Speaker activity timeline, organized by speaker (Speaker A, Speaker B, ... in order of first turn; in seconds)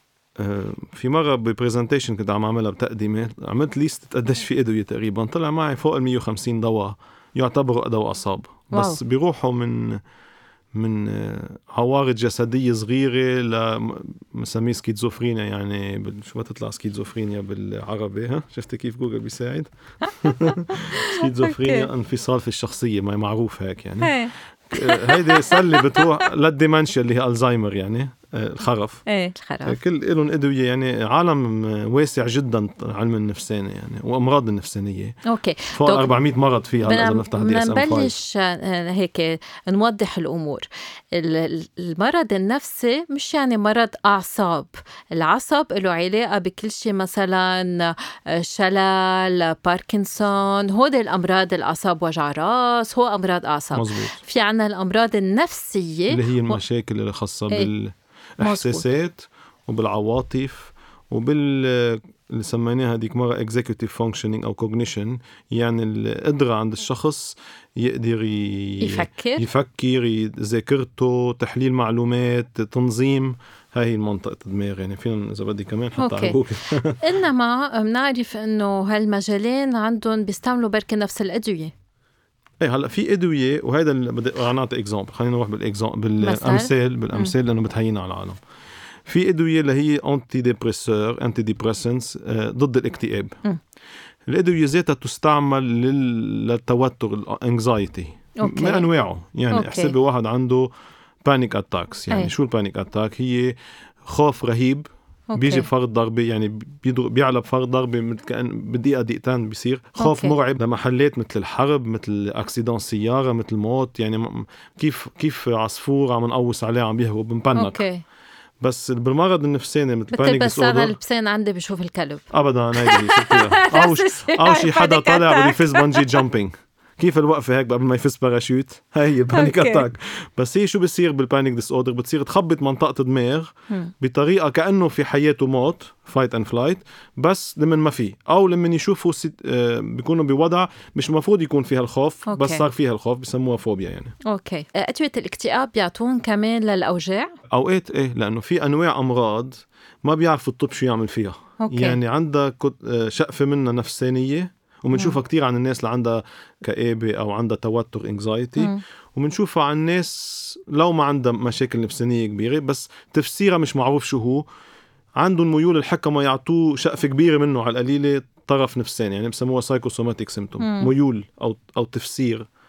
Speaker A: 0.4-10.0, 10.7-24.2, 24.7-29.0, 29.6-35.2, 35.7-38.1, 53.7-54.2, 56.1-77.0, 82.6-88.4, 89.0-93.4, 94.3-100.7, 101.2-117.8, 118.6-120.9, 122.3-144.2, 147.5-164.4, 165.2-172.5
Speaker B: 8.7-9.0, 20.0-21.9, 24.0-26.2, 29.1-29.8, 35.2-36.1, 36.8-56.6, 58.4-58.9, 68.8-69.5, 76.0-76.4, 76.9-81.7, 86.2-87.3, 98.4-98.9, 99.5-99.9, 105.3-105.7, 110.0-110.3, 117.5-118.0, 120.1-126.2, 129.3-129.8, 142.3-142.7, 144.2-147.3, 151.6-152.0, 158.6-158.8, 170.6-170.9